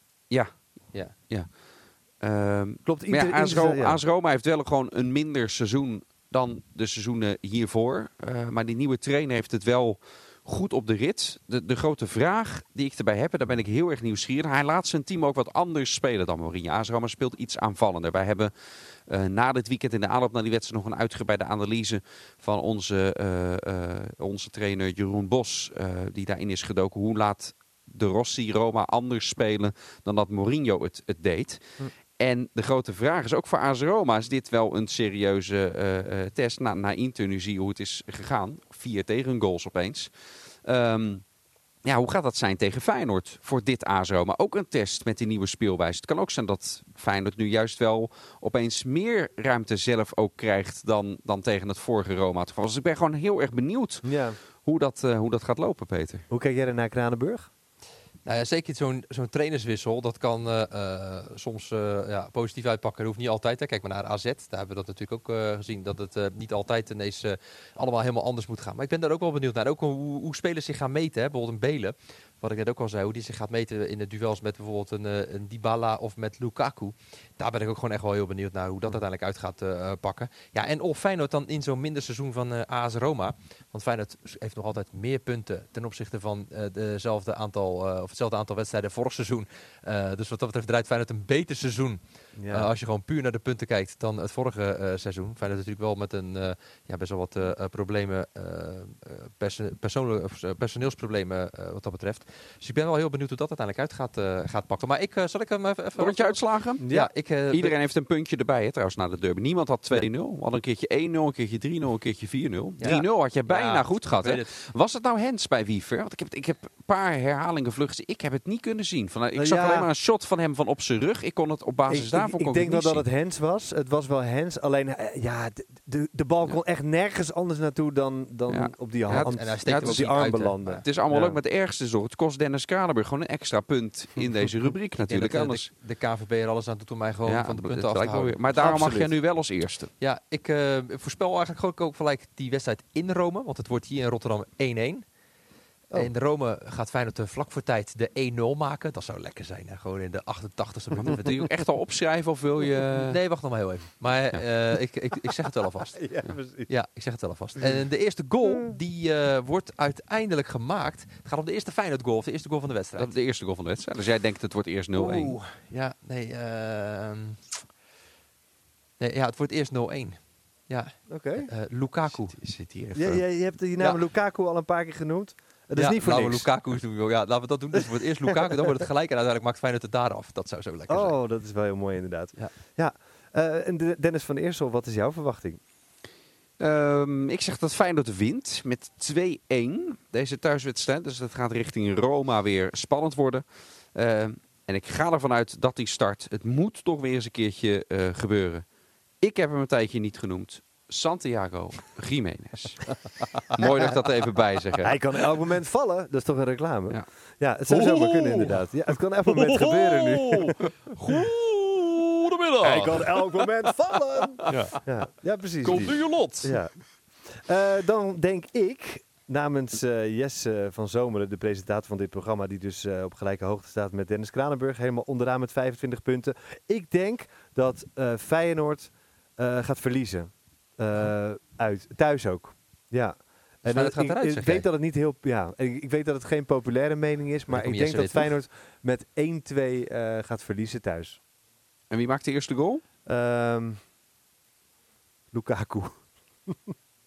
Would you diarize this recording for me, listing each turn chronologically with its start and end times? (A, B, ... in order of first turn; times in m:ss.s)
0:00.3-0:01.6 A
0:02.2-0:18.5 A
0:02.8-0:04.0 B
0:19.1-0:40.1 A
0:40.6-0:41.2 A
0:41.8-0:56.3 A
0:54.0-0:54.4 B
0:56.3-0:57.5 B
0:58.2-1:47.8 C
1:32.4-1:32.7 B
1:46.0-1:46.9 A
1:46.8-1:47.1 B
1:47.5-2:03.0 A
1:52.8-1:54.5 C
1:59.4-1:59.9 B
2:01.9-2:11.4 B
2:08.5-2:15.7 A
2:09.1-2:10.8 C
2:15.1-2:19.1 C
2:17.3-2:19.9 A
2:20.0-2:25.1 C
2:25.9-2:31.4 C
2:31.0-2:33.2 A
2:33.1-2:36.0 C
2:36.0-2:36.7 B
2:36.7-2:43.1 C
2:38.4-2:38.8 B
2:43.0-2:45.4 A
2:45.0-2:47.4 C
2:49.0-2:52.3 C
2:51.1-2:51.5 B
2:52.1-2:53.2 A
2:53.0-2:56.5 B
2:55.7-3:01.2 C
3:00.9-3:05.6 B
3:06.6-3:18.7 A
3:19.2-3:25.0 A
3:24.8-3:30.6 B
3:27.7-3:28.5 A
3:29.6-3:30.0 A
3:31.0-3:31.6 A
3:31.1-3:33.4 C
3:32.4-3:33.0 A
3:32.6-4:01.2 B
3:34.4-3:34.8 C
3:34.5-3:34.8 A
3:35.6-3:36.6 A
3:35.6-3:36.5 C
3:53.6-3:54.7 C
3:57.5-3:58.3 C
4:01.9-4:02.8 A
4:03.0-4:03.8 B
4:05.3-4:06.7 B